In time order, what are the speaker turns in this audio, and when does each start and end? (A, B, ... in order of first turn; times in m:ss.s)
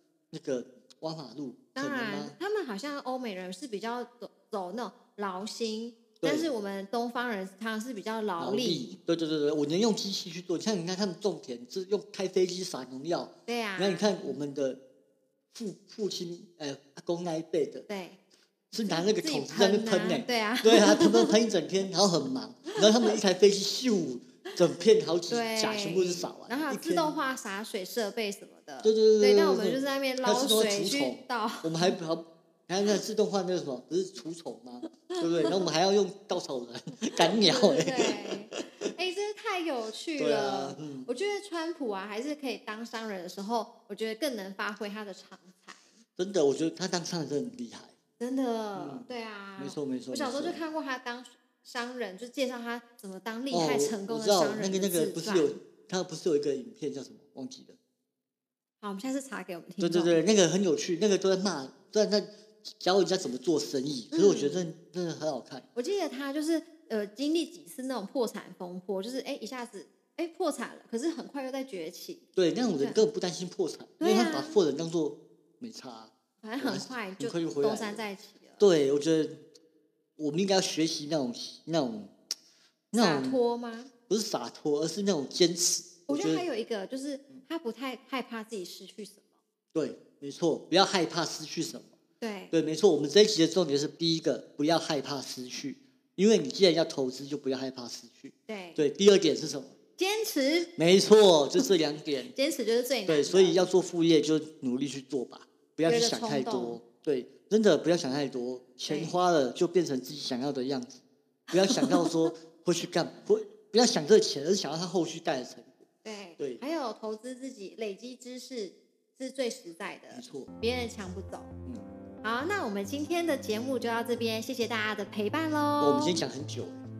0:00.3-0:02.4 A
0:01.8-0:08.9 B
0:06.2-0:06.5 A
0:08.4-0:14.8 A
0:13.5-0:14.1 B
0:15.5-0:17.9 A
0:17.9-0:18.2 B
0:18.7-0:27.2 A
0:18.8-0:21.3 B
0:25.3-0:31.9 B
0:28.8-0:38.9 A
0:35.1-0:35.7 B
0:37.2-0:45.9 B
0:40.2-0:41.1 A
0:46.2-0:47.9 A
0:48.2-0:55.5 B
0:48.8-0:50.6 A
0:53.5-0:57.8 A
0:58.8-1:00.2 B
0:59.8-1:05.6 A
1:04.1-1:04.6 B
1:05.7-1:12.2 B
1:12.4-1:18.0 A
1:14.0-1:14.6 B
1:16.4-1:18.6 B
1:18.6-1:19.4 A
1:20.2-1:22.1 A
1:22.9-1:23.4 A
1:23.0-1:23.9 B
1:24.1-1:26.4 A
1:26.1-1:29.3 B
1:29.7-1:31.9 A
1:32.2-1:32.5 B
1:32.5-1:39.8 A
1:38.5-1:38.8 B
1:40.0-1:40.7 B
1:40.8-1:42.3 A
1:42.3-1:43.6 B
1:43.1-1:55.9 A
1:45.8-1:46.8 B
1:48.9-1:49.2 B
1:51.5-1:52.3 B
1:56.0-2:01.5 B
1:56.4-1:56.6 A
2:00.1-2:00.5 A
2:02.2-2:06.2 B
2:05.8-2:06.8 A